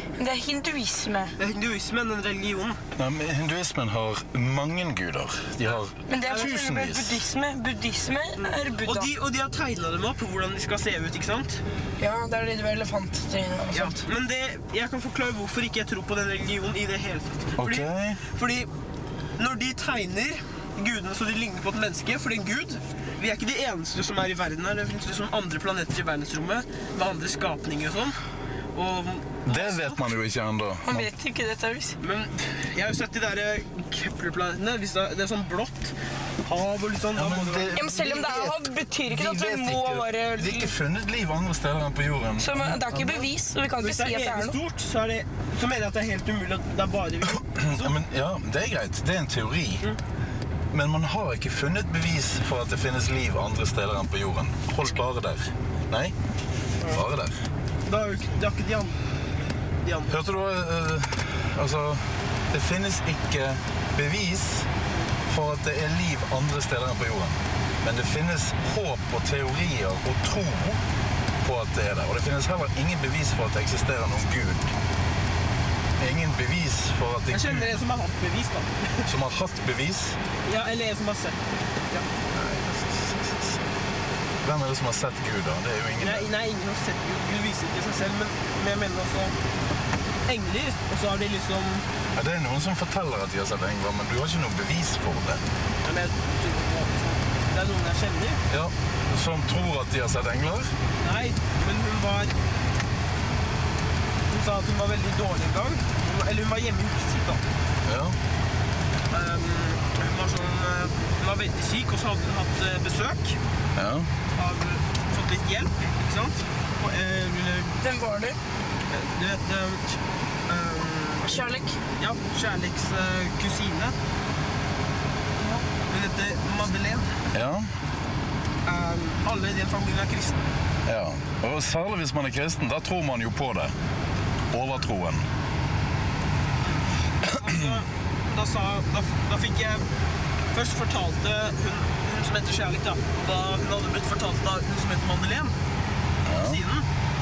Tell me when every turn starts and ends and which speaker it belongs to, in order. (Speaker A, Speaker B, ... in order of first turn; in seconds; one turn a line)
Speaker A: 0.2-1.4
Speaker B: 1.4-2.8
Speaker C: 3.0-7.2
Speaker B: 5.6-6.5
Speaker A: 6.1-9.1
Speaker B: 8.4-11.6
Speaker A: 12.0-14.0
Speaker B: 13.7-18.7
Speaker C: 17.6-18.2
Speaker B: 19.4-28.2
Speaker B: 28.7-29.9
Speaker C: 29.5-31.1
Speaker A: 30.8-32.0
Speaker B: 32.0-38.4
Speaker C: 37.1-38.5
Speaker A: 37.8-40.8
Speaker C: 39.1-43.2
Speaker A: 42.4-44.6
Speaker B: 43.8-47.9
Speaker C: 47.5-49.9
Speaker C: 50.7-56.1
Speaker C: 56.9-57.4
Speaker B: 57.9-59.0
Speaker B: 59.8-60.2
Speaker C: 60.1-64.7
Speaker C: 65.3-70.8
Speaker C: 71.4-74.7
Speaker C: 76.0-77.8
Speaker B: 77.3-79.1
Speaker C: 79.1-80.2
Speaker B: 80.5-82.1
Speaker C: 82.3-83.6
Speaker C: 84.4-86.3
Speaker B: 86.0-89.4
Speaker B: 90.2-91.9
Speaker C: 92.1-95.4
Speaker B: 95.8-98.4
Speaker C: 98.5-100.7
Speaker B: 101.0-102.3
Speaker B: 104.3-107.4
Speaker C: 107.8-108.2
Speaker B: 109.1-113.4
Speaker C: 113.8-114.1
Speaker B: 114.3-117.8
Speaker A: 117.8-118.4
Speaker B: 118.9-119.9
Speaker B: 120.5-121.3
Speaker A: 121.2-121.8
Speaker B: 122.0-124.0
Speaker B: 125.9-127.2
Speaker C: 127.3-127.7
Speaker B: 128.6-130.4
Speaker C: 130.9-133.7
Speaker C: 134.5-135.2
Speaker B: 136.7-139.9
Speaker B: 140.5-145.6
Speaker C: 146.2-146.6
Speaker B: 146.4-146.9